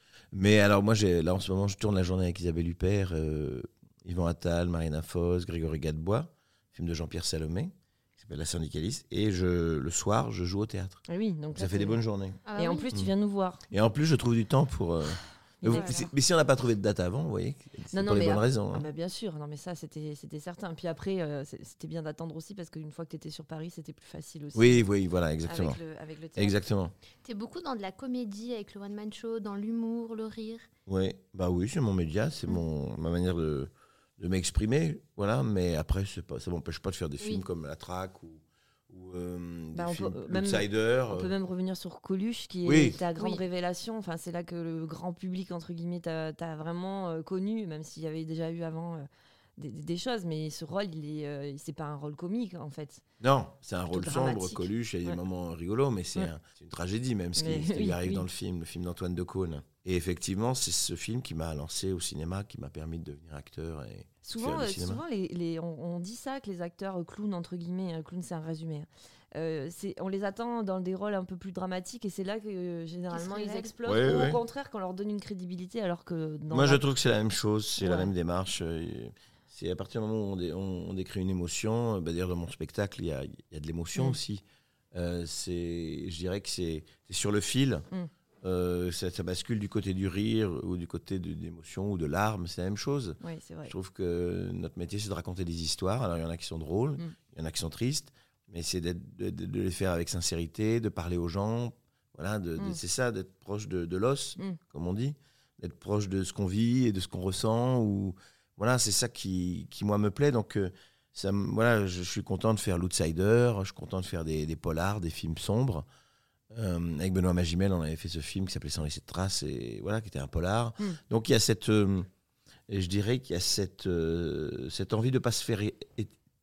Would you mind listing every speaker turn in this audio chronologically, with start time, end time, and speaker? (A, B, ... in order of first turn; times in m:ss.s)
0:00.3-0:11.0 A
0:11.1-0:12.0 B
0:11.5-0:12.4 A
0:12.4-0:12.9 C
0:12.6-0:13.6 B
0:13.7-0:18.8 A
0:15.6-0:16.1 B
0:15.7-0:16.0 C
0:17.9-0:24.9 B
0:24.5-0:25.8 A
0:25.4-0:26.6 B
0:26.4-0:26.9 A
0:27.2-0:30.7 C
0:30.9-0:41.3 A
0:39.7-0:53.0 B
0:42.6-0:43.0 A
0:43.1-0:43.4 C
0:53.2-1:05.0 A
0:53.9-0:55.2 B
0:57.4-0:58.2 B
1:04.2-1:16.8 B
1:13.1-1:13.7 C
1:13.8-1:14.4 A
1:16.5-1:27.9 A
1:17.8-1:18.1 B
1:28.4-1:55.8 A
1:33.2-1:33.7 B
1:56.5-2:02.1 A
2:02.7-2:06.1 A